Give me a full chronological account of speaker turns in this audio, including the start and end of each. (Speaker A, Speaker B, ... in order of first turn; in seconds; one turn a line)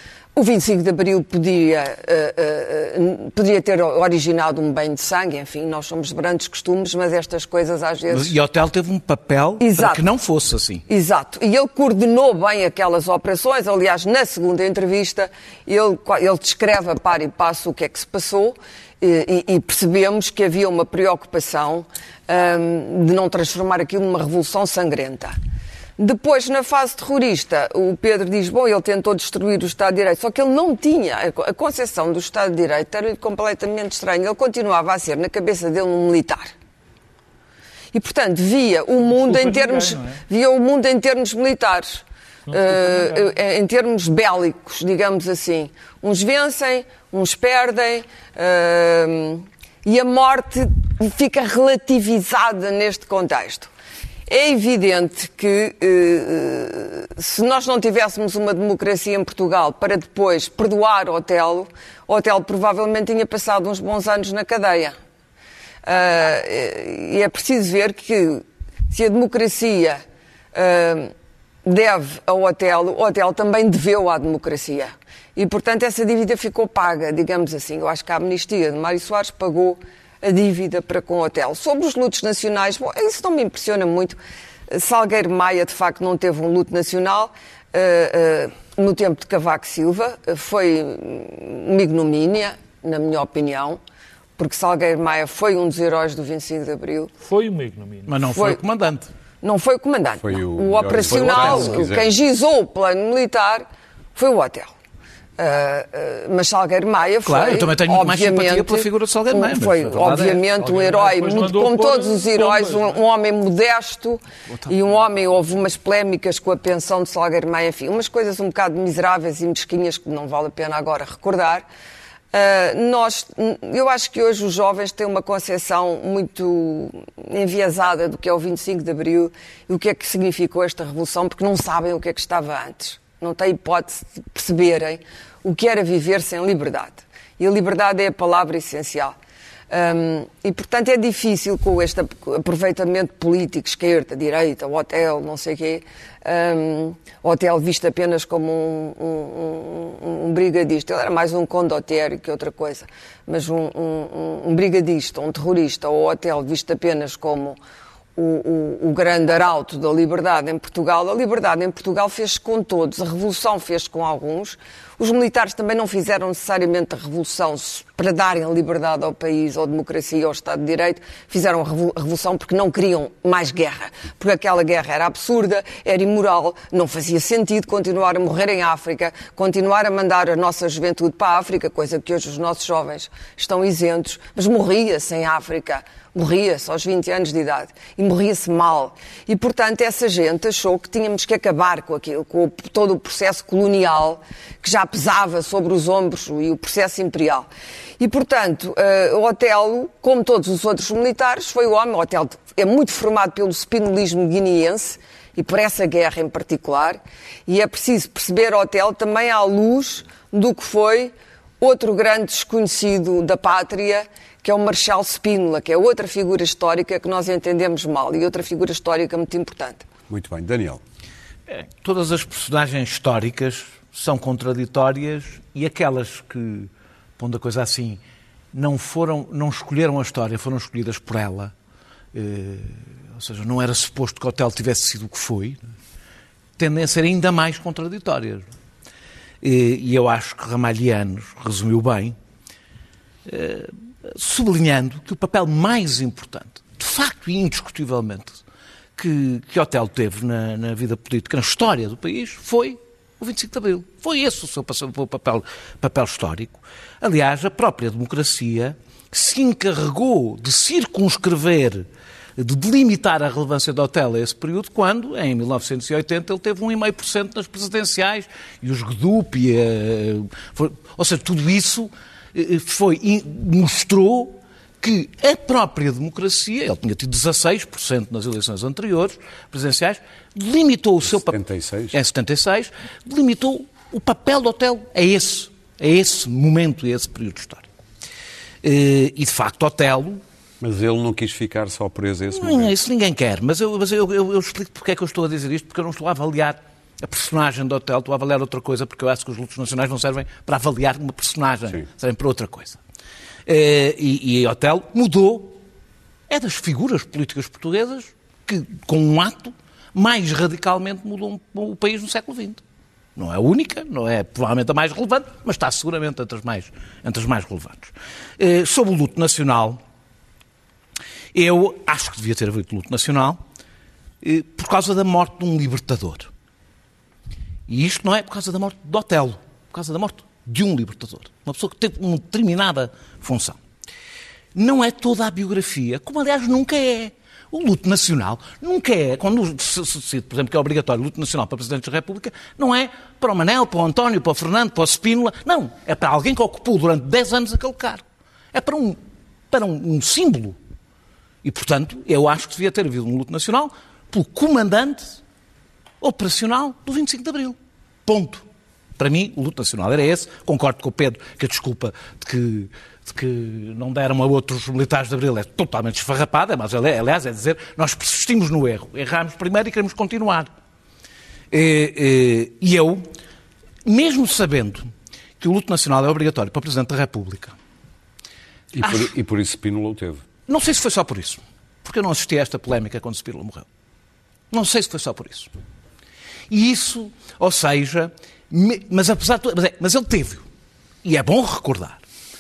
Speaker A: 0.3-8.3
Speaker B: 8.1-10.8
Speaker A: 9.6-10.0
Speaker A: 10.9-25.3
Speaker A: 26.0-36.5
Speaker A: 37.9-53.7
Speaker C: 39.0-40.2
Speaker C: 42.5-43.3
Speaker A: 54.3-64.9
Speaker A: 65.8-70.0
Speaker A: 70.5-71.1
Speaker A: 71.6-84.2
Speaker A: 84.7-93.8
Speaker A: 94.4-97.1
Speaker C: 97.2-98.2
Speaker B: 98.1-99.1
Speaker A: 98.3-98.6
Speaker A: 99.4-104.7
Speaker D: 100.2-102.1
Speaker B: 101.2-101.9
Speaker A: 105.4-121.7
Speaker B: 107.2-110.4
Speaker C: 110.5-113.0
Speaker A: 122.3-139.2
Speaker A: 139.7-157.6
Speaker A: 158.2-219.8
Speaker D: 220.1-220.8
Speaker B: 221.5-228.0
Speaker B: 228.5-231.5
Speaker B: 232.1-235.6
Speaker B: 236.6-238.5
Speaker B: 239.4-242.2
Speaker B: 243.2-248.4
Speaker B: 249.0-281.4
Speaker D: 281.1-282.0
Speaker B: 281.9-287.7
Speaker B: 288.6-290.2
Speaker D: 290.6-292.7
Speaker B: 292.3-302.8
Speaker B: 303.4-305.6
Speaker B: 306.3-312.6
Speaker B: 313.1-319.8
Speaker B: 321.3-323.4
Speaker B: 324.2-326.3
Speaker B: 327.7-333.6
Speaker B: 334.5-350.6
Speaker B: 351.4-355.2
Speaker B: 356.0-358.4
Speaker B: 359.0-370.5
Speaker B: 371.5-373.1
Speaker B: 373.8-377.6
Speaker D: 378.7-380.2
Speaker B: 378.8-379.1
Speaker B: 380.5-383.7
Speaker B: 384.5-385.5
Speaker B: 386.5-390.5
Speaker B: 391.0-392.0